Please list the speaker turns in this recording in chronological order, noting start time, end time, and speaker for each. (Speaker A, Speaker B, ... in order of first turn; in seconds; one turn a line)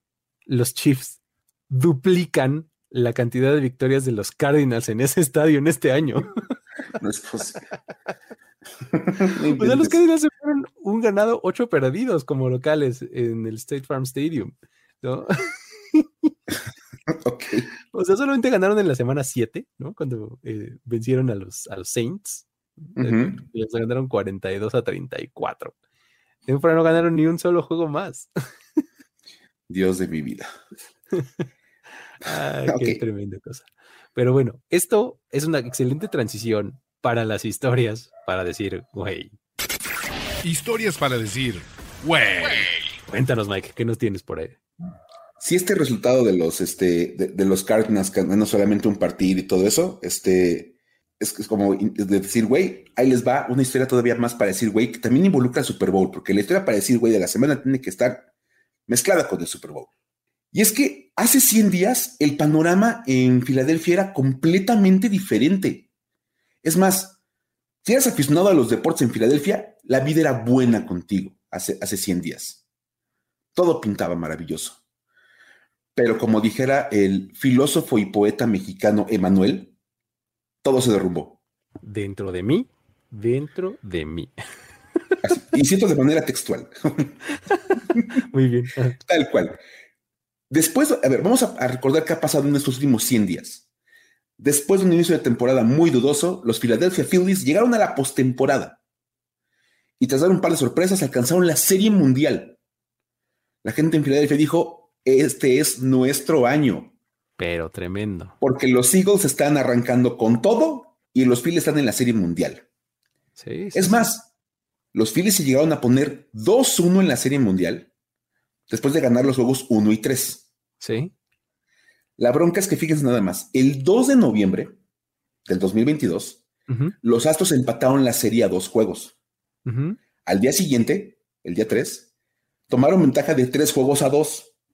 Speaker A: 0.5-6.3
Speaker B: 7.0-7.7
Speaker B: 8.9-10.0
Speaker A: 9.5-16.3
Speaker B: 17.1-17.7
Speaker A: 17.9-25.7
Speaker B: 23.0-23.4
Speaker A: 26.5-28.3
Speaker B: 29.7-30.5
Speaker A: 31.1-31.4
Speaker A: 32.2-39.4
Speaker B: 32.7-33.0
Speaker C: 40.4-42.8
Speaker A: 43.1-44.6
Speaker B: 45.4-58.3
Speaker B: 58.9-59.9
Speaker B: 60.5-65.9
Speaker B: 66.6-67.2
Speaker B: 67.8-72.6
Speaker B: 73.5-74.8
Speaker B: 76.0-79.7
Speaker B: 80.6-81.4
Speaker A: 81.8-84.3
Speaker B: 85.2-87.2
Speaker A: 87.5-89.0
Speaker B: 89.0-89.6
Speaker B: 90.5-93.7
Speaker B: 94.4-98.8
Speaker B: 100.0-102.6
Speaker B: 103.6-106.9
Speaker A: 107.4-108.4
Speaker B: 108.4-112.7
Speaker A: 113.4-114.1
Speaker B: 113.7-114.3
Speaker B: 114.9-117.9
Speaker B: 118.7-120.5
Speaker A: 120.8-121.1
Speaker B: 122.2-124.8
Speaker B: 125.5-126.4
Speaker A: 126.7-127.0
Speaker B: 127.0-129.1
Speaker A: 129.7-130.0
Speaker B: 130.2-132.1
Speaker B: 132.7-134.5